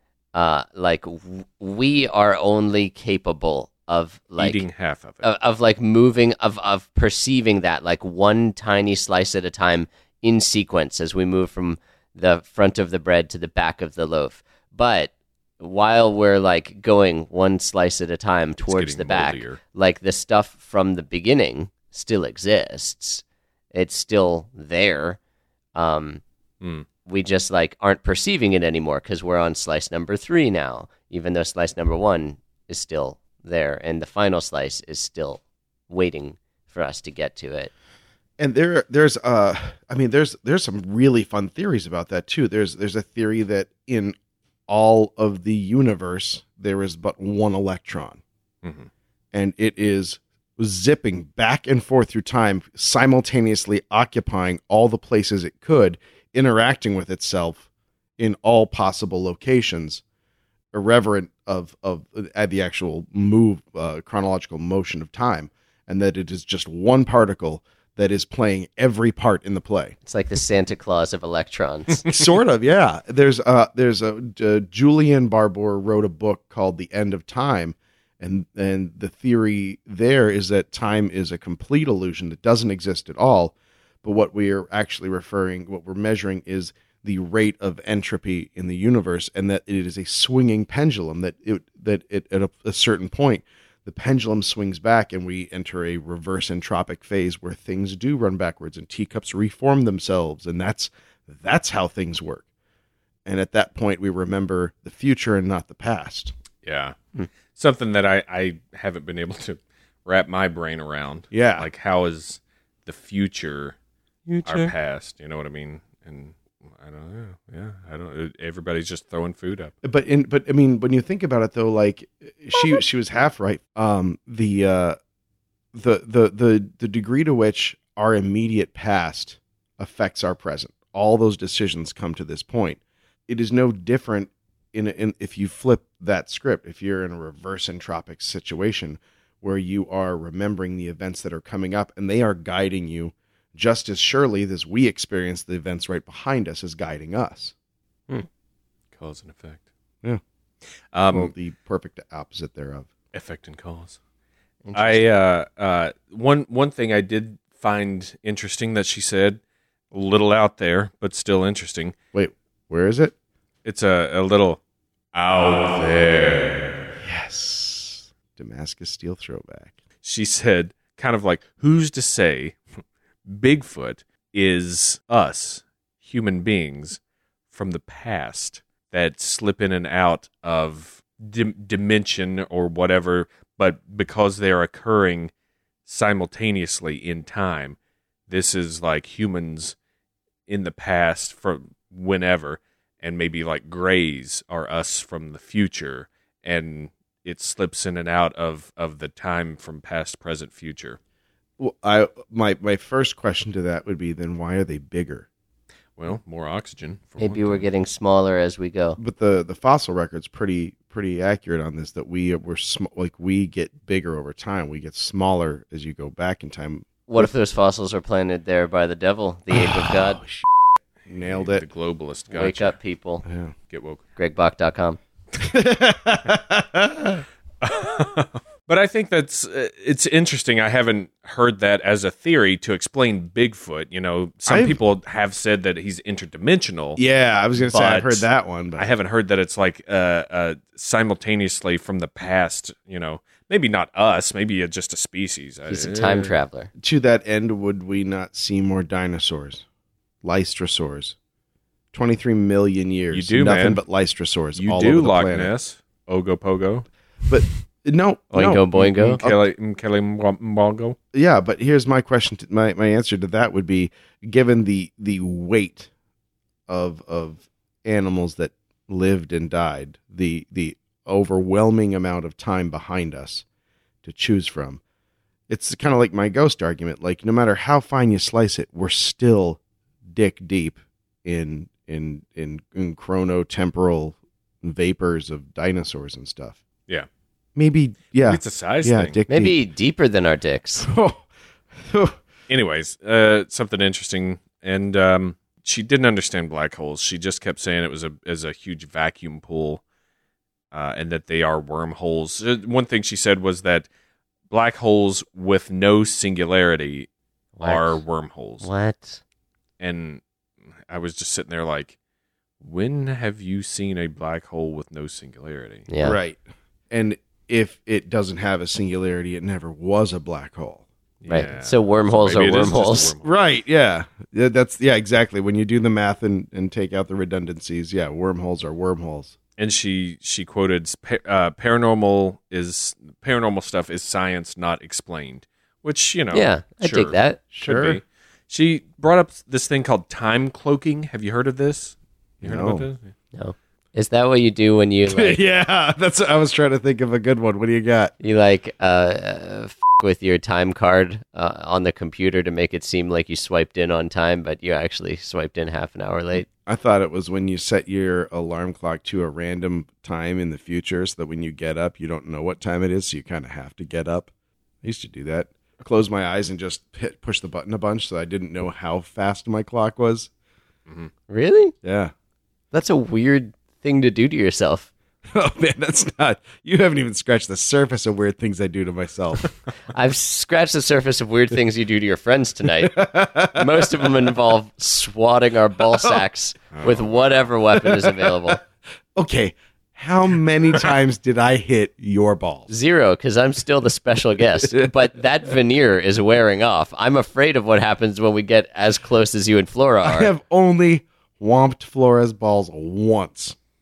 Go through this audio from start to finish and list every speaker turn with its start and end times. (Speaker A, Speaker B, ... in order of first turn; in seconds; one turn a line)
Speaker A: 0.3-4.6
Speaker B: 4.4-5.2
Speaker A: 5.2-25.2
Speaker B: 18.7-19.6
Speaker A: 25.7-26.2
Speaker B: 26.6-26.9
Speaker A: 27.0-37.7
Speaker C: 38.4-44.1
Speaker C: 44.7-48.2
Speaker C: 49.3-57.6
Speaker C: 58.2-60.0
Speaker C: 60.7-70.0
Speaker A: 70.0-72.0
Speaker C: 72.0-102.4
Speaker C: 103.2-106.3
Speaker B: 106.6-107.0
Speaker B: 107.5-113.8
Speaker C: 111.3-111.7
Speaker A: 114.3-114.7
Speaker B: 114.4-119.7
Speaker C: 119.8-125.0
Speaker C: 125.7-147.5
Speaker B: 148.9-149.6
Speaker B: 150.9-151.3
Speaker C: 151.1-152.9
Speaker B: 153.1-154.0
Speaker A: 154.6-155.0
Speaker B: 154.7-159.4
Speaker B: 159.9-161.9
Speaker C: 162.1-163.1
Speaker B: 163.6-164.6
Speaker B: 165.1-166.7
Speaker C: 167.0-169.8
Speaker B: 170.0-172.6
Speaker B: 173.3-177.0
Speaker B: 177.5-185.3
Speaker B: 185.8-187.8
Speaker B: 188.3-189.7
Speaker B: 190.5-201.0
Speaker C: 201.6-205.3
Speaker B: 206.0-207.7
Speaker A: 207.2-209.0
Speaker C: 209.0-217.3
Speaker A: 217.1-220.2
Speaker C: 219.5-220.4
Speaker C: 221.1-221.7
Speaker B: 221.2-222.7
Speaker A: 222.3-223.2
Speaker C: 223.2-223.5
Speaker B: 223.7-224.0
Speaker A: 224.2-225.0
Speaker C: 225.3-227.2
Speaker B: 227.6-237.0
Speaker C: 234.5-234.8
Speaker C: 237.0-238.9
Speaker B: 237.6-246.3
Speaker A: 245.7-246.7
Speaker C: 246.8-249.6
Speaker C: 250.2-251.2
Speaker C: 251.9-255.5
Speaker B: 253.1-253.8
Speaker B: 254.6-256.9
Speaker C: 257.3-259.5
Speaker A: 258.3-259.2
Speaker B: 258.8-261.0
Speaker C: 261.1-265.9
Speaker C: 266.7-273.4
Speaker C: 274.0-274.8
Speaker C: 275.5-286.6
Speaker C: 287.6-289.6
Speaker B: 288.2-289.2
Speaker A: 289.3-290.9
Speaker C: 290.8-291.2
Speaker C: 291.8-292.2
Speaker B: 292.5-299.8
Speaker B: 300.7-303.9
Speaker B: 304.5-307.1
Speaker A: 307.6-308.0
Speaker B: 307.6-308.6
Speaker A: 308.6-309.2
Speaker B: 309.8-310.2
Speaker B: 310.9-311.9
Speaker B: 312.6-315.9
Speaker A: 315.9-316.2
Speaker C: 316.0-320.9
Speaker B: 321.2-323.3
Speaker A: 321.3-323.1
Speaker C: 323.2-329.3
Speaker B: 329.6-343.1
Speaker A: 336.3-337.4
Speaker C: 337.5-338.0
Speaker C: 342.4-342.9
Speaker A: 343.3-345.4
Speaker C: 345.1-348.1
Speaker A: 348.2-356.5
Speaker C: 356.6-364.3
Speaker C: 364.8-370.3
Speaker A: 371.3-371.7
Speaker C: 371.8-372.1
Speaker A: 372.7-374.9
Speaker C: 375.3-379.5
Speaker A: 379.9-388.6
Speaker C: 382.8-384.1
Speaker B: 386.7-387.4
Speaker C: 387.8-388.3
Speaker C: 389.1-392.7
Speaker A: 392.7-400.3
Speaker C: 400.0-403.6